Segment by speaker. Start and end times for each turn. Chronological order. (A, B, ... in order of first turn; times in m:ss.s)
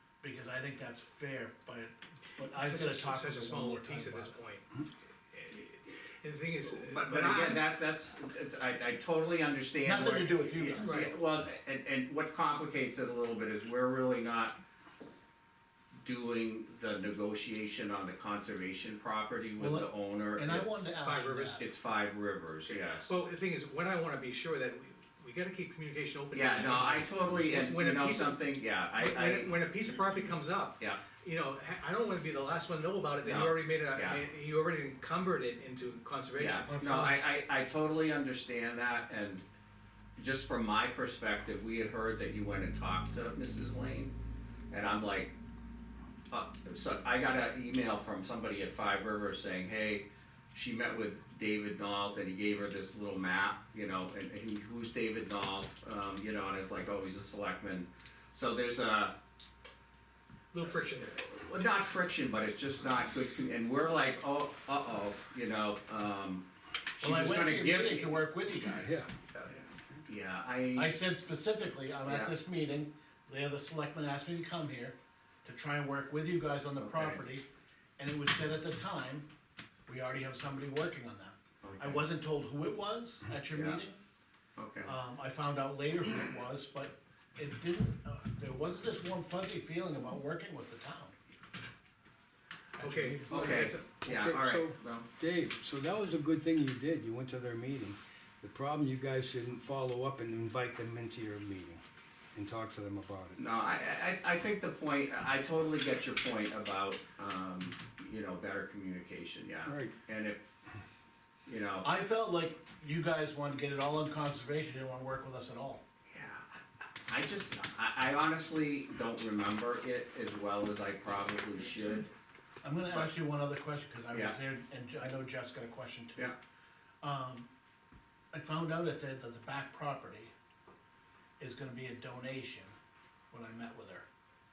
0:00.2-0:04.4 A
0:02.5-0:07.7 B
0:06.8-0:14.6 C
0:09.8-0:11.1 A
0:10.8-0:11.1 B
0:16.0-0:20.9 C
0:19.6-0:21.6 A
0:21.0-0:21.6 B
0:21.6-0:23.2 C
0:22.7-0:37.2 B
0:26.3-0:29.5 C
0:33.2-0:34.2 C
0:36.4-0:39.4 C
0:40.2-0:44.1 C
0:44.7-0:45.3 C
0:46.3-0:59.2 C
1:00.5-1:01.2 B
1:01.2-1:06.4 C
1:07.0-1:08.2 C
1:07.0-1:09.0 A
1:08.8-1:09.1 D
1:09.4-1:10.9 C
1:10.8-1:17.5 A
1:12.0-1:12.3 C
1:16.8-1:17.2 C
1:18.0-1:19.3 A
1:19.9-1:24.0 A
1:21.6-1:22.0 C
1:23.5-1:23.8 C
1:24.6-1:24.9 C
1:24.8-1:31.2 A
1:32.8-1:33.6 A
1:32.8-1:33.9 B
1:33.3-1:35.1 C
1:34.0-1:41.8 D
1:42.3-1:43.4 D
1:43.4-1:50.5 C
1:49.7-1:50.0 D
1:51.5-1:51.9 C
1:51.8-1:55.8 A
1:56.1-2:02.1 C
2:02.6-2:06.3 A
2:07.0-2:07.5 A
2:08.3-2:10.3 A
2:11.4-2:12.7 A
2:13.3-2:14.1 A